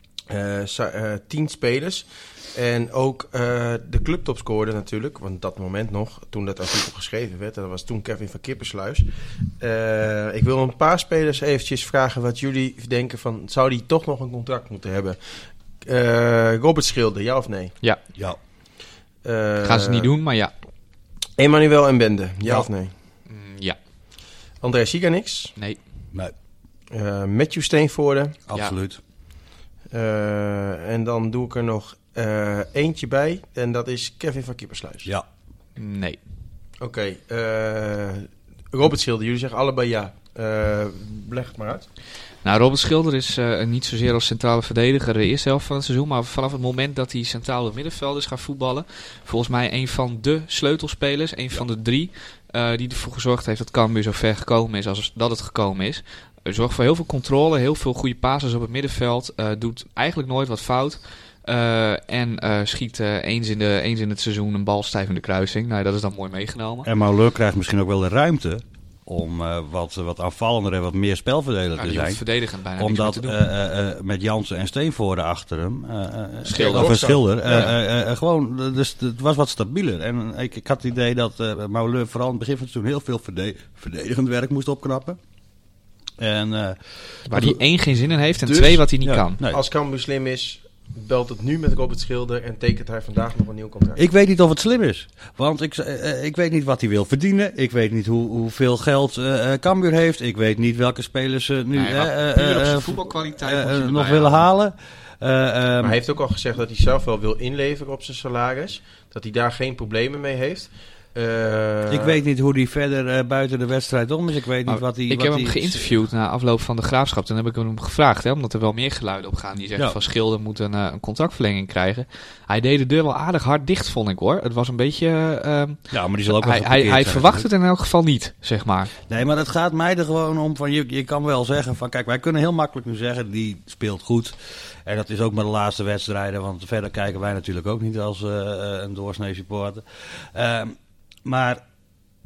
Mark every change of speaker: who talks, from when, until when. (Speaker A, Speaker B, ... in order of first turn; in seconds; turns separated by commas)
Speaker A: 0.3-17.8, Speaker A: 19.2-20.1, Speaker B: 19.6-20.5, Speaker A: 21.3-22.9, Speaker B: 22.4-23.8, Speaker A: 24.6-25.5, Speaker B: 25.6-25.8, Speaker A: 26.9-28.4, Speaker C: 28.5-29.0, Speaker A: 29.9-35.1, Speaker B: 35.8-36.2, Speaker A: 36.8-41.9, Speaker B: 42.4-66.9, Speaker C: 66.8-72.2, Speaker B: 71.8-73.4, Speaker C: 72.7-85.2, Speaker B: 76.4-77.7, Speaker A: 76.6-77.7, Speaker C: 86.2-87.6, Speaker B: 87.3-89.4, Speaker A: 88.4-88.8, Speaker C: 89.0-89.6, Speaker A: 89.4-94.0, Speaker C: 94.0-106.0, Speaker B: 101.7-104.4, Speaker A: 105.8-112.2, Speaker C: 111.9-116.0, Speaker B: 114.7-128.9, Speaker C: 125.9-127.5, Speaker C: 129.0-141.6